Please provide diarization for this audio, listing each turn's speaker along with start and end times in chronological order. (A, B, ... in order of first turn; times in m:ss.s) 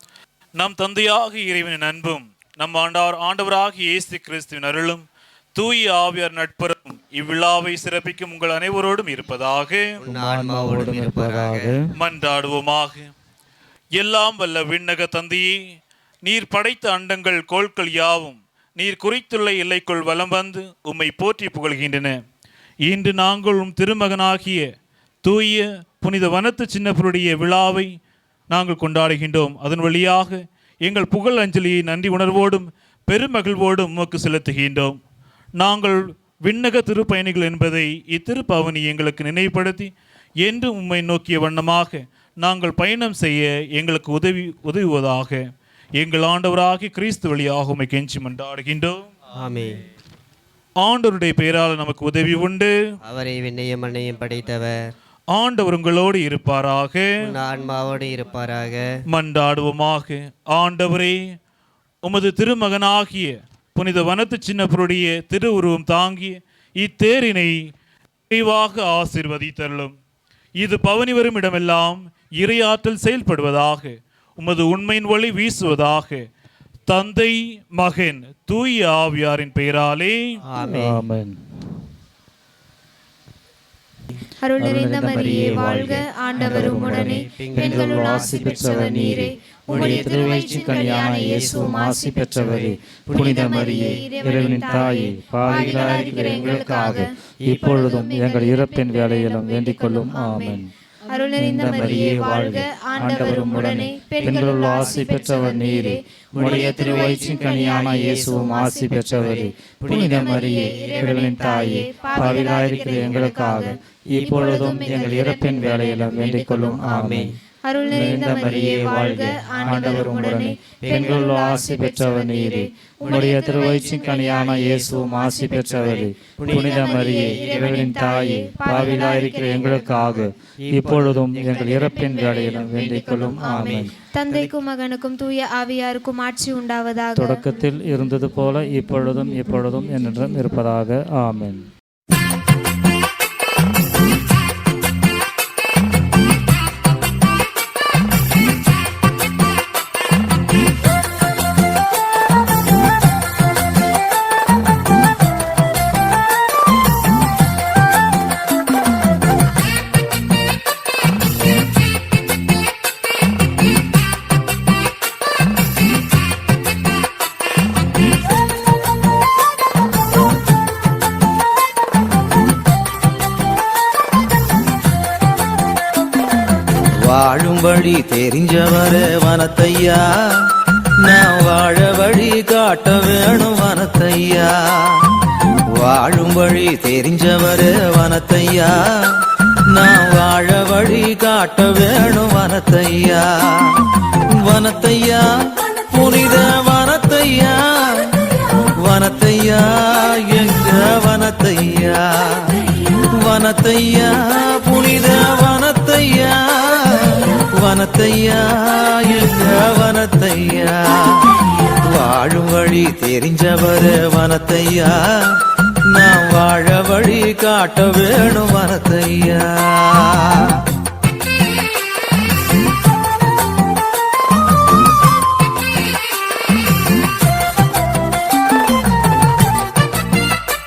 0:00.6-0:09.9 A
0:10.0-0:11.8 B
0:10.0-0:11.9 C
0:11.9-0:13.1 A
0:14.0-0:15.6 A
0:16.2-0:22.2 A
0:22.8-0:24.7 A
0:25.2-0:27.9 A
0:28.5-0:35.0 A
0:35.6-0:39.9 A
0:40.4-0:45.5 A
0:46.0-0:49.0 A
0:49.4-0:49.8 B
0:50.8-0:52.8 A
0:53.0-0:54.9 B
0:55.3-0:57.4 A
0:57.2-0:59.0 B
0:59.1-1:01.2 A
1:02.0-1:07.7 A
1:08.3-1:09.9 A
1:10.6-1:16.3 A
1:16.9-1:20.4 A
1:20.5-1:21.0 B
1:20.7-1:21.4 C
1:24.4-1:57.0 D
1:24.6-1:40.7 C
1:27.2-1:29.1 B
1:29.7-1:31.7 B
1:32.4-1:34.7 B
1:35.4-1:36.4 B
1:41.4-1:57.4 C
1:44.2-1:45.2 B
1:46.3-1:48.4 B
1:49.2-1:51.5 B
1:52.6-1:53.1 B
1:56.8-1:57.4 B
1:57.6-2:10.3 D
1:57.9-2:13.9 C
1:58.7-1:59.0 B
1:59.6-2:00.1 B
2:00.8-2:01.3 B
2:03.0-2:04.2 B
2:06.4-2:07.8 B
2:10.6-2:11.9 B
2:11.5-2:17.5 D
2:13.4-2:14.6 B
2:17.2-2:21.7 C
2:57.0-3:05.1 E
3:05.7-3:40.6 E